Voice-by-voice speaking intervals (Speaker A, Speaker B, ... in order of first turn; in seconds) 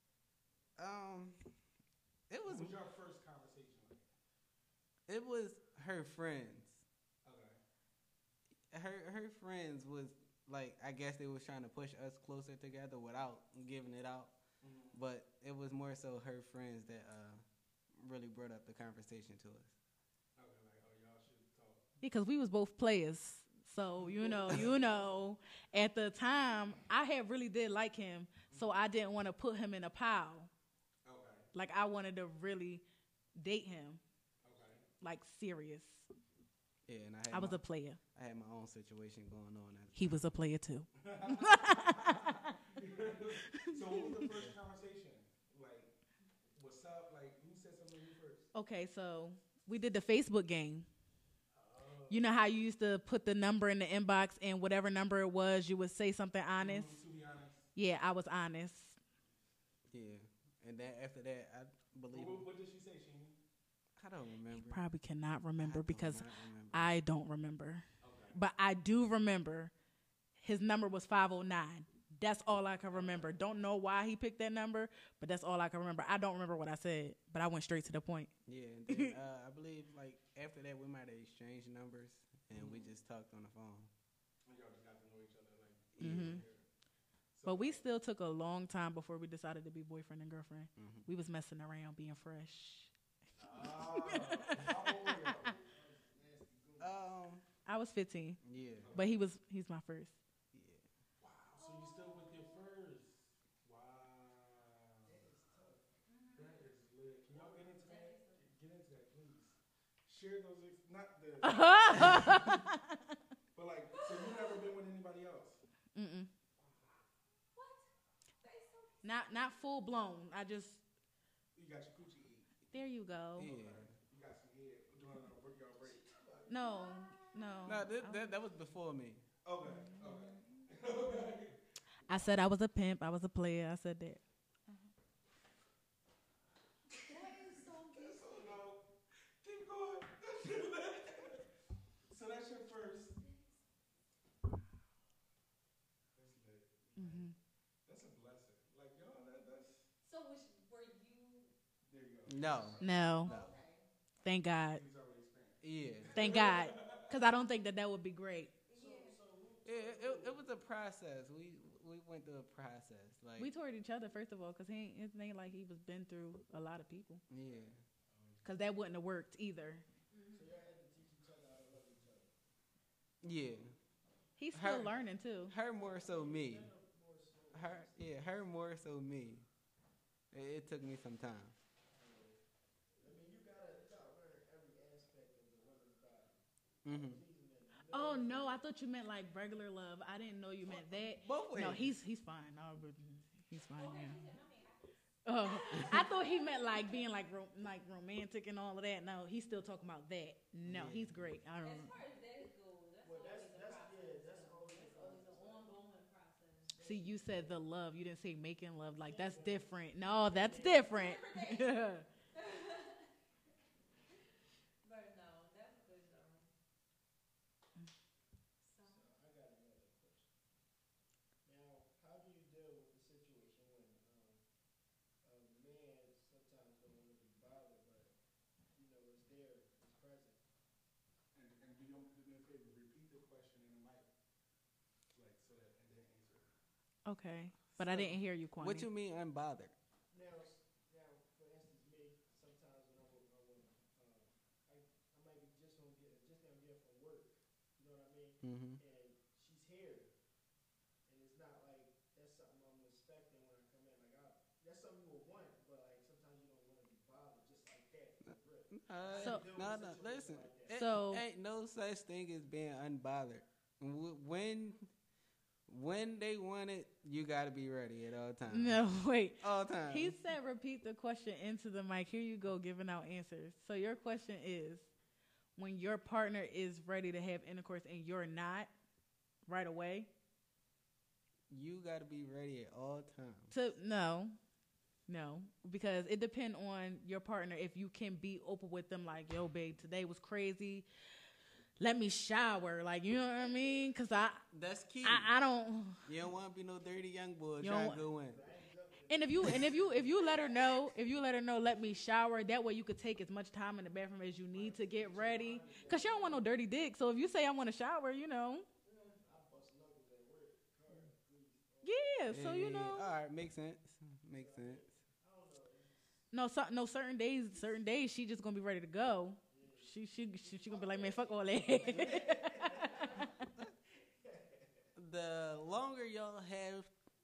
Speaker A: 0.8-1.4, 2.3-2.8, 5.1-6.8, 8.7-14.4, 14.9-17.4, 17.9-19.7, 36.9-37.6, 38.1-40.2, 59.9-62.5, 64.0-64.8, 65.6-66.9, 78.5-83.9, 86.0-86.4, 90.8-91.1, 96.8-97.4, 98.4-98.9, 100.5-100.8, 123.4-123.9, 127.7-129.2, 152.3-153.5, 155.6-156.2, 159.6-163.5, 167.3-167.8, 173.2-173.7, 174.5-174.9, 175.5-176.7, 177.5-179.4, 180.3-181.5, 186.8-187.2, 190.7-191.9, 200.6-201.2, 237.8-239.7, 248.4-248.8, 258.7-264.9, 265.7-268.8, 269.4-270.1, 281.5-283.6, 294.5-295.3, 296.0-298.4, 312.3-314.9, 324.9-326.9
Speaker B: 2.4-4.1, 7.2-7.6, 14.6-15.0, 20.4-21.9, 24.0-25.1, 31.0-31.5, 34.4-34.9, 41.0-45.9, 46.5-48.5, 51.5-52.3, 56.6-57.7, 62.1-63.4, 68.0-68.4, 72.9-73.4, 82.6-82.9, 84.5-86.7, 87.3-87.8, 93.4-95.6, 98.8-99.3, 101.2-105.2, 106.3-112.6, 113.5-115.6, 116.6-116.9, 121.5-122.7, 123.4-126.1, 129.4-131.6, 136.9-138.9, 139.4-141.4, 142.1-143.2, 146.1-147.3, 147.8-149.9, 151.9-153.4, 154.6-157.2, 168.1-168.6, 231.3-234.1, 235.1-236.5
Speaker C: 22.0-30.5, 31.5-32.8, 33.4-34.0, 35.0-36.1, 37.3-38.0, 39.9-42.5, 43.5-44.4, 48.5-50.9, 52.1-57.0, 57.7-59.0, 64.6-69.7, 70.4-78.3, 78.9-79.1, 86.0-86.4, 87.4-92.9, 93.5-95.5, 97.7-98.4, 98.9-100.2, 111.4-112.8, 115.9-116.3, 119.0-120.8, 122.7-123.5, 126.5-128.3, 129.7-130.3, 132.1-134.2, 147.0-147.3, 152.8-153.3, 154.2-154.8, 156.1-158.5, 163.4-167.2, 168.4-169.8, 174.4-175.5, 187.9-194.2, 195.2-201.9, 206.8-212.0, 237.1-238.9, 260.7-261.2, 268.5-274.9, 275.6-278.7, 279.4-280.1, 283.5-284.4, 285.1-290.8, 291.8-294.4, 295.0-296.0, 297.6-298.0, 299.1-308.6, 311.8-313.1, 316.3-323.1
Speaker D: 95.2-97.1, 105.1-106.0, 107.3-107.7, 125.8-126.6, 158.7-160.4, 170.3-172.3, 175.7-178.2, 181.9-182.4, 183.0-188.6, 203.0-205.7, 206.7-207.6, 209.0-211.2, 218.8-220.3, 221.4-224.4, 225.2-228.1, 228.7-230.4, 240.1-250.1, 251.1-260.8, 298.3-300.5, 304.5-306.5, 308.9-312.3, 314.3-316.2, 319.5-323.6, 324.2-324.9
Speaker E: 101.5-102.7, 106.1-106.5, 107.8-108.4, 113.9-114.6, 117.5-117.9, 118.4-119.8, 126.5-127.9, 137.0-138.5, 143.2-143.5, 150.0-151.5, 152.5-153.9, 158.7-159.2, 170.1-170.5, 193.7-197.1, 201.6-206.7, 210.5-213.1, 214.8-216.5, 218.6-219.0, 321.6-323.2